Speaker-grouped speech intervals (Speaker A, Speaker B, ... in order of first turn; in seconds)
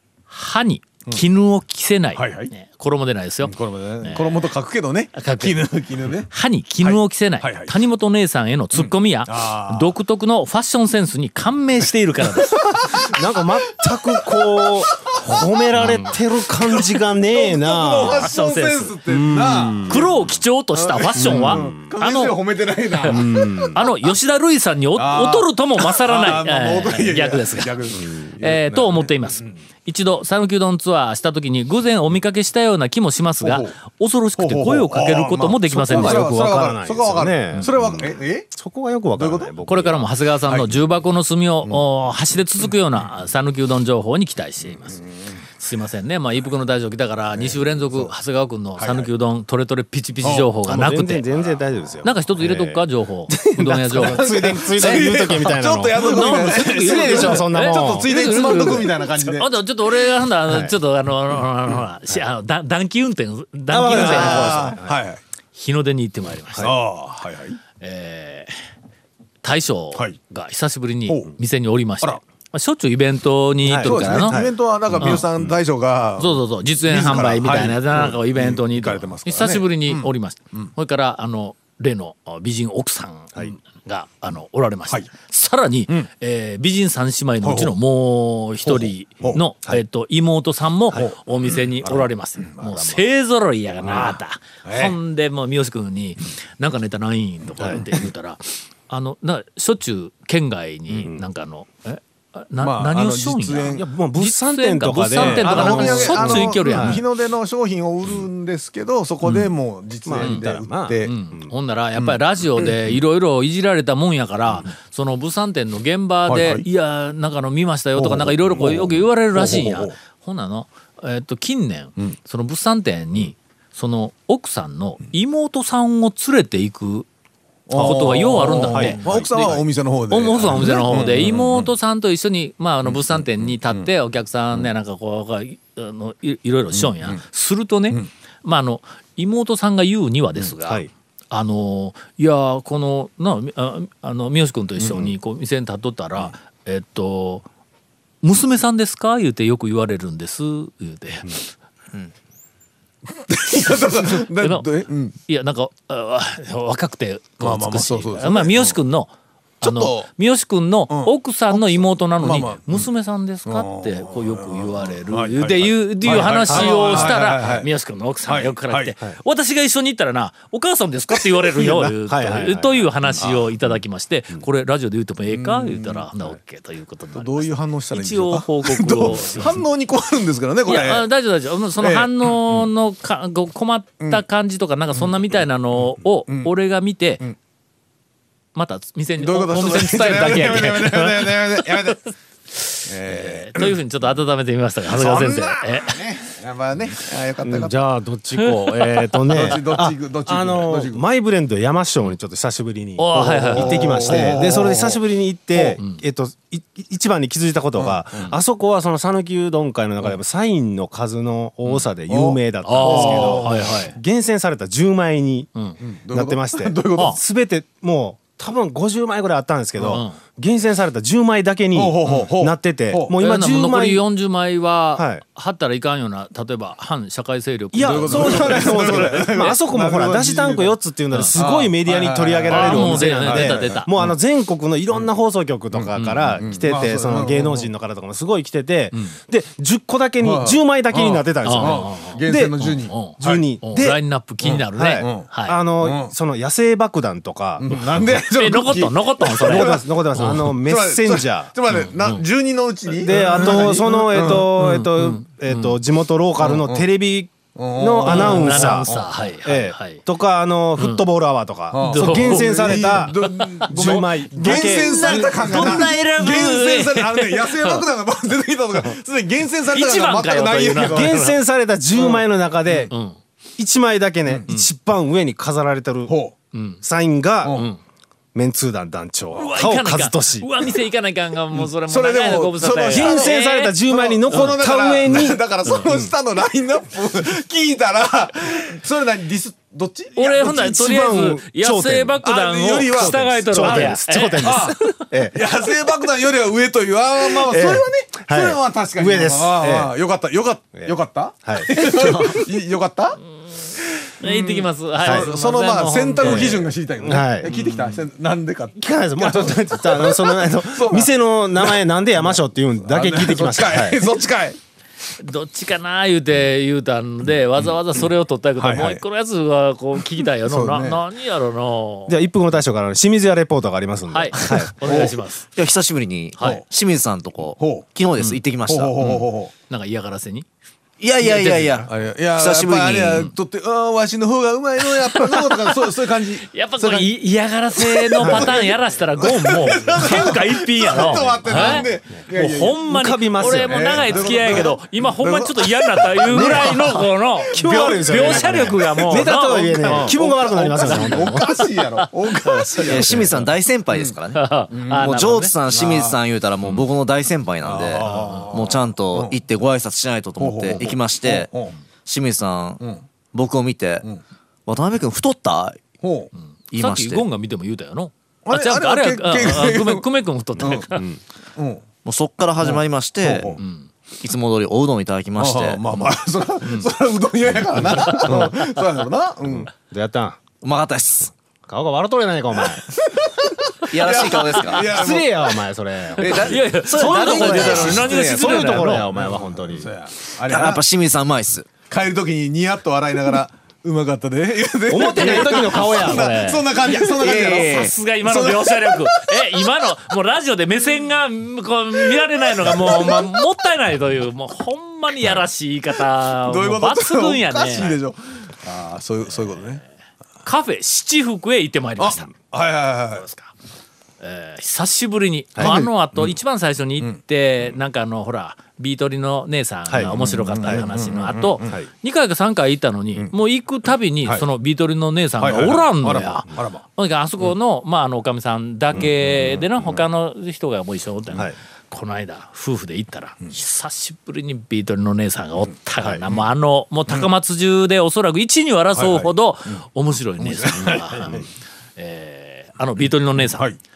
Speaker A: 0.3-4.5, 5.1-5.7, 6.3-12.6, 15.8-16.1, 18.1-18.9, 19.8-22.4, 22.9-27.8, 28.4-36.4, 39.6-45.0, 45.6-54.3, 56.0-64.8, 65.5-66.8, 67.8-68.5, 69.4-74.4, 74.9-75.2, 76.2-107.0, 109.2-109.5, 110.2-110.5, 111.0-127.1, 127.7-147.4, 148.2-151.5, 153.7-154.7, 155.2-179.6, 180.7-187.2, 188.6-196.1, 198.4-199.6, 203.0-204.4, 212.6-213.9, 215.6-215.8, 219.9-220.2, 223.2-229.6, 232.5-234.2, 235.9-236.4, 241.4-245.6, 248.2-250.4, 251.7-252.2, 253.1-255.8, 258.0-260.0, 260.8-261.1, 261.8-263.7, 264.4-267.9, 269.7-271.4, 272.9-273.2, 276.5-276.8, 277.5-277.8, 279.3-284.6, 290.1-295.1, 304.2-306.6, 307.4-308.0, 315.2-322.2, 324.1-325.4, 326.4-326.6, 329.0-330.4, 331.2-331.9, 335.0-335.5, 336.4-350.2, 350.8-351.6, 352.4-353.0, 354.3-355.5, 358.0-358.5, 366.7-371.1, 373.6-373.9, 376.6-376.9, 378.1-378.5, 386.3-389.1, 394.9-407.9, 409.4-409.9, 410.4-412.3, 413.1-413.5, 414.2-441.4, 442.0-443.7
Speaker B: 2.1-2.5, 3.4-6.3, 6.8-7.7, 8.7-9.9, 12.4-13.2, 14.2-15.5, 16.6-20.1, 20.7-23.9, 24.9-29.5, 33.4-33.8, 34.4-38.5, 39.1-39.6, 40.5-40.8, 44.9-45.4, 47.4-48.1, 48.8-49.1, 50.2-50.5, 53.9-59.5, 63.8-65.2, 66.6-67.6, 71.1-71.3, 73.8-80.7, 87.4-87.7, 88.6-89.8, 90.9-93.0, 93.8-95.0, 97.6-98.0, 102.6-103.9, 105.1-111.1, 112.0-113.0, 116.3-116.7, 118.0-119.9, 127.7-131.7, 132.9-133.9, 136.7-137.2, 144.8-145.1, 153.1-155.2, 157.4-158.8, 159.6-160.1, 160.9-162.9, 163.4-167.7, 168.2-169.0, 171.3-172.4, 173.2-173.6, 175.3-176.1, 177.1-181.1, 181.8-182.7, 184.9-185.4, 189.2-192.1, 192.9-193.8, 194.9-197.8, 199.3-201.0, 203.5-205.0, 205.6-205.8, 207.8-208.3, 212.1-213.8, 215.8-217.2, 219.8-220.1, 221.7-223.2, 227.7-230.7, 231.3-233.9, 236.4-237.7, 240.2-243.5, 244.4-245.3, 245.8-246.1, 247.6-254.5, 256.4-256.9, 257.6-259.2, 261.7-271.2, 272.0-272.9, 276.1-276.4, 277.4-277.7, 281.5-283.3, 283.9-290.6, 292.2-294.8, 295.3-303.2, 303.8-314.6, 317.6-318.0, 318.6-319.0, 320.4-321.0, 324.8-325.1, 326.4-326.6, 327.6-327.9, 328.7-329.5, 331.9-337.1, 337.8-342.8, 343.4-354.1, 354.7-356.2, 357.6-359.4, 360.4-361.7, 366.0-366.3, 368.4-370.1, 370.6-370.9, 371.6-371.8, 372.6-373.6, 375.4-379.7, 383.0-385.6, 387.6-388.0, 389.1-390.8, 391.9-399.6, 402.1-403.4, 406.2-409.8, 412.0-413.2, 415.6-416.3, 420.0-421.8, 425.4-426.9, 428.9-430.0, 438.9-439.8, 440.4-441.5
Speaker C: 13.0-18.3, 19.1-20.1, 21.1-21.9, 23.0-23.9, 35.7-40.0, 50.7-58.1, 60.5-60.7, 63.7-65.0, 73.6-75.5, 103.7-107.0, 110.0-111.5, 128.7-129.3, 166.1-167.4, 172.1-172.9, 197.4-215.5, 216.1-224.0, 224.9-225.2, 227.7-244.0, 244.7-247.8, 249.4-251.5, 252.9-258.9, 259.4-266.0, 270.9-272.9, 273.6-276.1, 276.8-277.7, 278.3-280.5, 282.9-286.1, 290.2-292.2, 292.9-295.5, 297.2-299.9, 300.8-302.5, 305.0-307.5, 308.8-314.2, 322.1-325.1, 338.2-338.5, 341.1-341.9, 342.9-344.7, 346.3-347.0, 347.5-351.6, 379.5-380.4, 381.7-382.9, 384.9-389.9, 394.9-396.6, 415.6-415.9
Speaker D: 325.6-328.9, 331.0-333.3, 352.8-361.5, 362.1-362.8, 363.3-364.1, 364.7-365.8, 366.7-367.2, 372.1-373.5, 374.2-375.8, 380.6-381.3, 383.9-384.9, 386.2-388.8, 390.4-391.7, 397.1-397.9